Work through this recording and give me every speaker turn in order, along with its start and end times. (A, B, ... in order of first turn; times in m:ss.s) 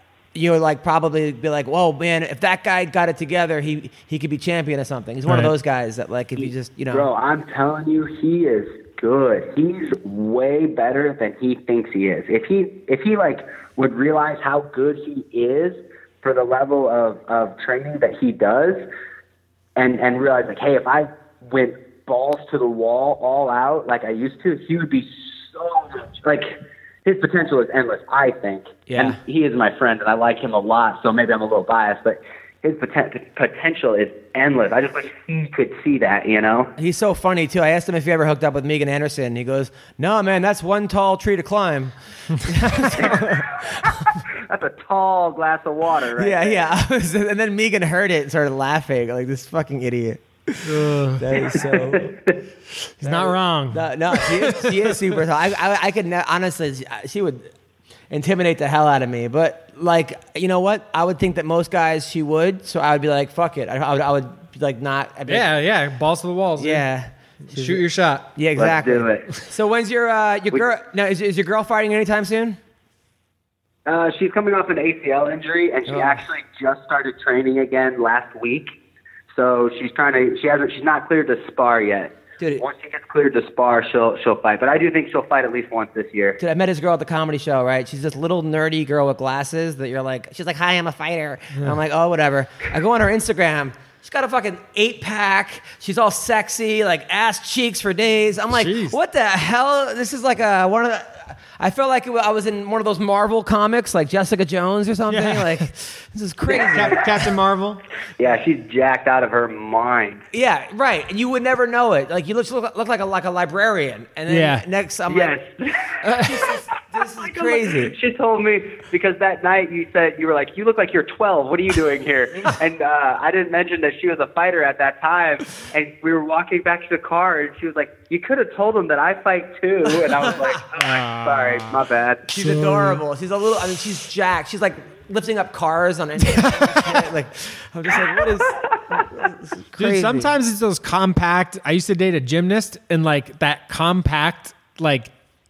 0:00.3-0:07.1 A
0:05.3-0:05.5 B
0:06.9-0:18.9 C
0:19.8-0:36.7 C
0:28.9-0:29.2 A
0:36.8-0:44.0 A
0:42.9-0:46.7 C
0:46.2-0:52.1 A
0:50.6-0:51.2 B
0:51.3-0:52.4 C
0:53.0-0:55.0 B
0:53.0-0:57.5 A
0:58.1-1:05.5 A
1:05.3-1:06.8 B
1:06.6-1:07.8 A
1:07.4-1:08.3 B
1:08.4-1:12.6 A
1:08.6-1:09.3 C
1:13.8-1:18.7 C
1:15.9-1:16.2 A
1:19.3-1:26.4 C
1:26.4-1:47.0 A
1:38.5-1:39.0 B
1:45.1-1:45.7 B
1:46.5-1:46.8 C
1:46.6-1:47.8 B
1:48.2-1:50.2 C
1:50.3-1:55.3 A
1:54.3-1:54.6 B
1:55.1-2:12.3 C
1:56.0-1:58.0 A
1:56.1-1:56.4 B
2:10.8-2:13.0 B
2:12.3-2:20.3 A
2:16.2-2:17.1 B
2:18.1-2:19.0 C
2:19.8-2:25.1 B